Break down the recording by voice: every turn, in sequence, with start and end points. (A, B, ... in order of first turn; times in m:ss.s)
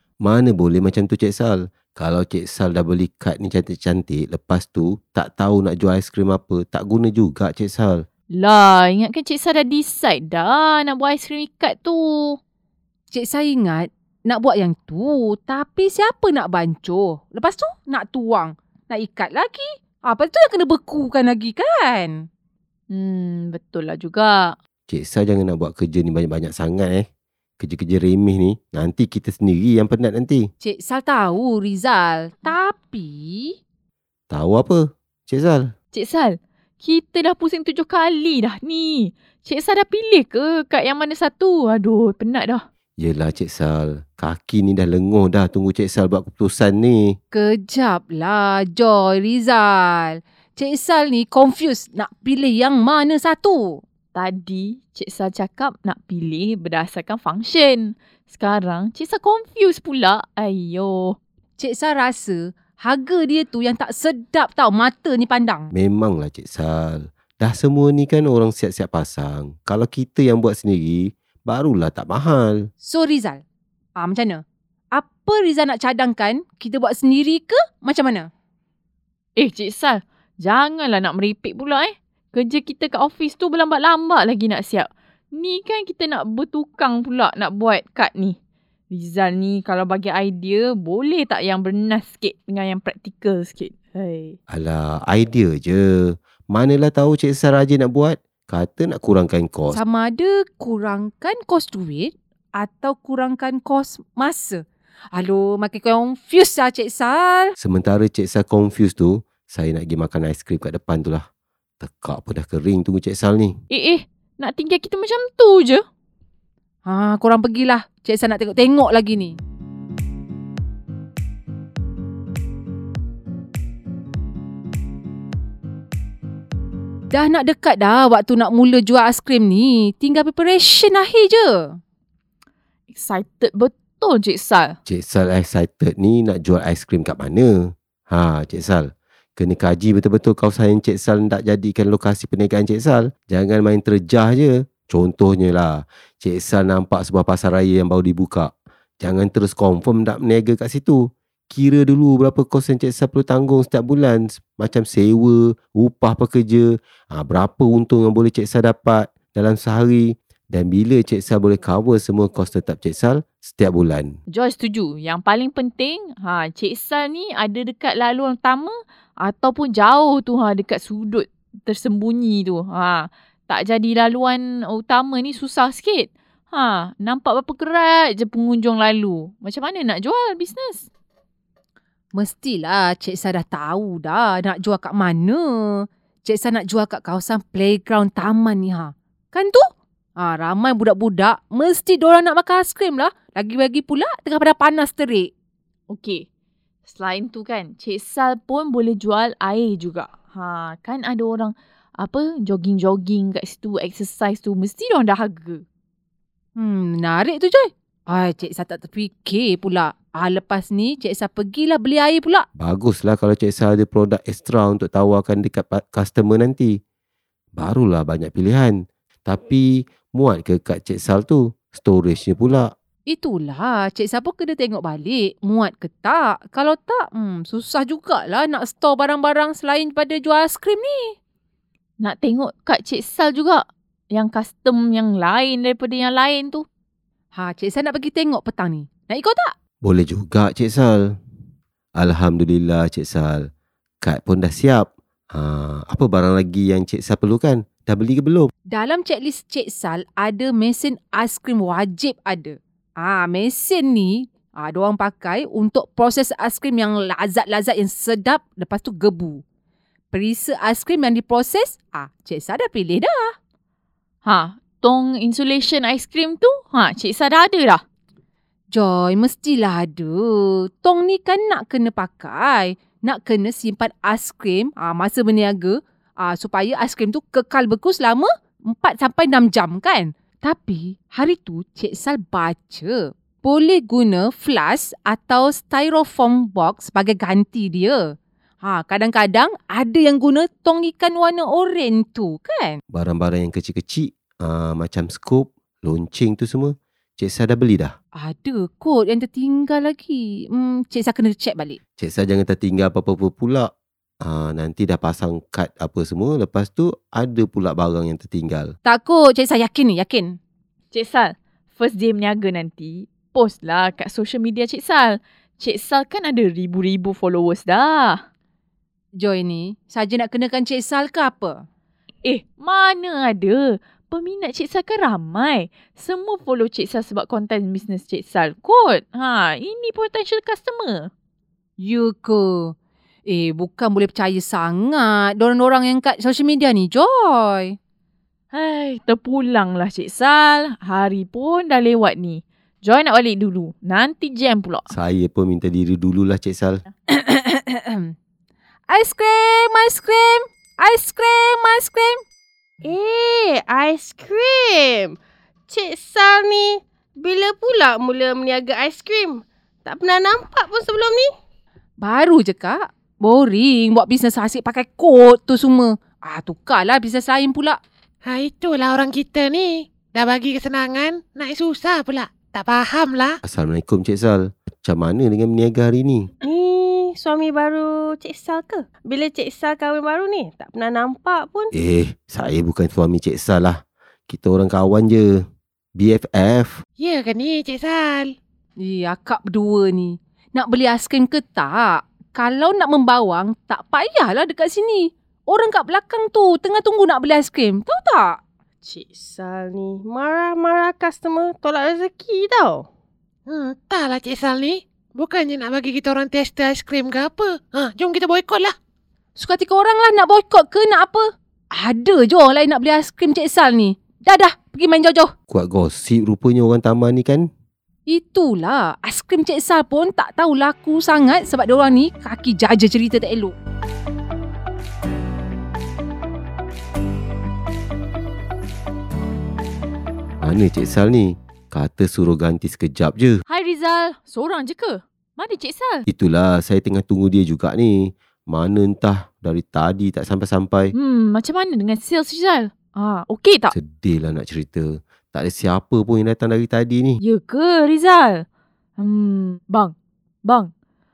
0:00.2-0:08.1 A
0:08.3-0:12.4 B
0:13.1-0:22.3 C
0:22.9-0:24.6 B
0:24.9-0:27.1 A
0:27.6-0:30.5 A
0:30.6-0:33.6 C
0:34.3-0:35.7 A
0:35.9-0:42.6 B
0:43.0-0:47.2 A
0:47.3-0:53.8 C
0:54.2-1:01.2 B
1:01.6-1:05.7 C
1:05.7-1:12.7 A
1:12.8-1:13.4 C
1:14.0-1:18.3 C
1:19.4-1:28.4 B
1:28.9-1:34.4 B
1:34.5-1:39.8 A
1:39.7-1:44.6 C
1:45.1-1:47.6 C
1:47.6-1:51.3 A
1:51.8-1:53.6 A
1:53.7-1:55.8 B
1:56.9-1:59.4 C
2:07.1-2:11.8 C
2:12.9-2:14.8 B
2:14.9-2:44.2 A
2:44.3-3:00.9 B
3:02.1-3:15.3 C
3:15.9-3:16.3 B
3:16.9-3:25.6 B
3:26.6-3:32.5 C
3:32.6-3:36.8 A
3:37.6-3:42.7 A
3:43.1-3:51.2 C
3:52.0-3:56.6 B
3:57.4-3:59.5 C
3:59.8-4:01.2 A
4:02.0-4:03.5 A
4:04.0-4:08.5 A
4:08.7-4:19.4 C
4:20.1-4:23.3 C
4:24.2-4:27.8 B
4:28.7-4:52.8 C
4:52.9-4:58.0 A
4:58.2-5:01.8 C
5:02.0-5:08.7 A
5:08.8-5:10.4 C
5:10.9-5:18.2 B
5:19.2-5:21.7 C
5:22.2-5:31.1 B
5:31.8-5:32.8 C
5:33.3-5:37.8 C
5:38.5-5:44.9 B
5:44.9-5:46.8 A
5:47.1-5:48.2 C
5:48.9-5:52.2 C
5:52.8-6:01.3 D
6:02.0-6:07.8 C
6:08.3-6:13.4 E
6:13.4-6:16.3 A
6:16.4-6:21.7 D
6:21.7-6:26.8 A
6:27.0-6:28.3 E
6:28.8-6:38.4 C
6:38.8-6:42.9 D
6:43.5-6:48.7 E
6:49.4-6:55.3 C
6:55.5-6:57.5 A
6:58.1-7:03.5 C
7:10.4-7:13.4 A
7:13.5-7:16.0 B
7:16.1-7:20.9 A
7:20.9-7:23.7 B
7:23.7-7:27.2 A
7:27.2-7:28.4 B
7:29.0-7:29.9 B
7:30.4-7:30.7 B